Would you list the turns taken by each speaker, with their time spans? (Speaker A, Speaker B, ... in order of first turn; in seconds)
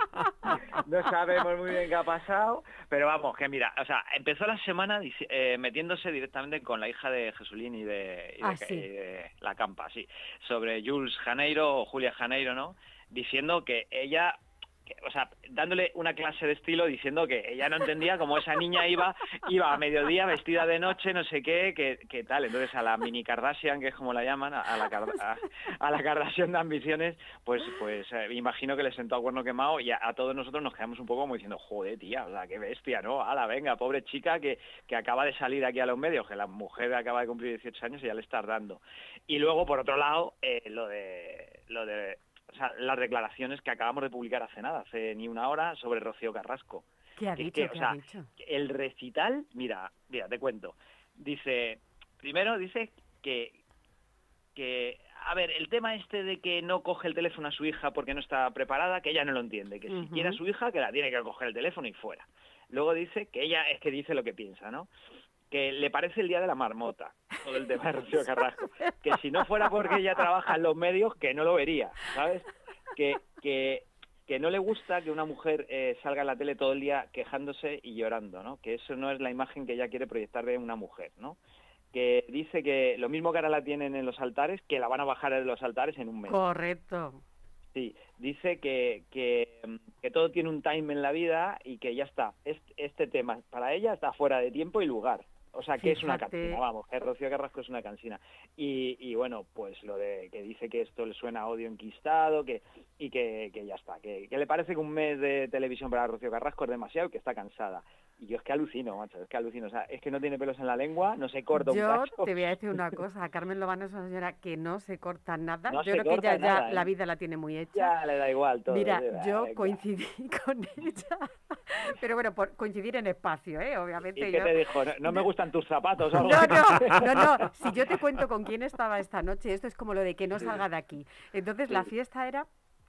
Speaker A: 0.5-53.6, 54.5-64.9, 65.5-81.4, 81.9-86.4, 87.7-112.4, 115.7-116.9, 117.7-119.8, 124.2-127.9, 130.3-130.6
Speaker B: 8.4-8.9, 47.2-48.3, 59.9-60.4, 68.1-69.9, 86.2-87.2, 95.8-96.6, 111.5-117.9, 118.7-125.3, 126.2-132.5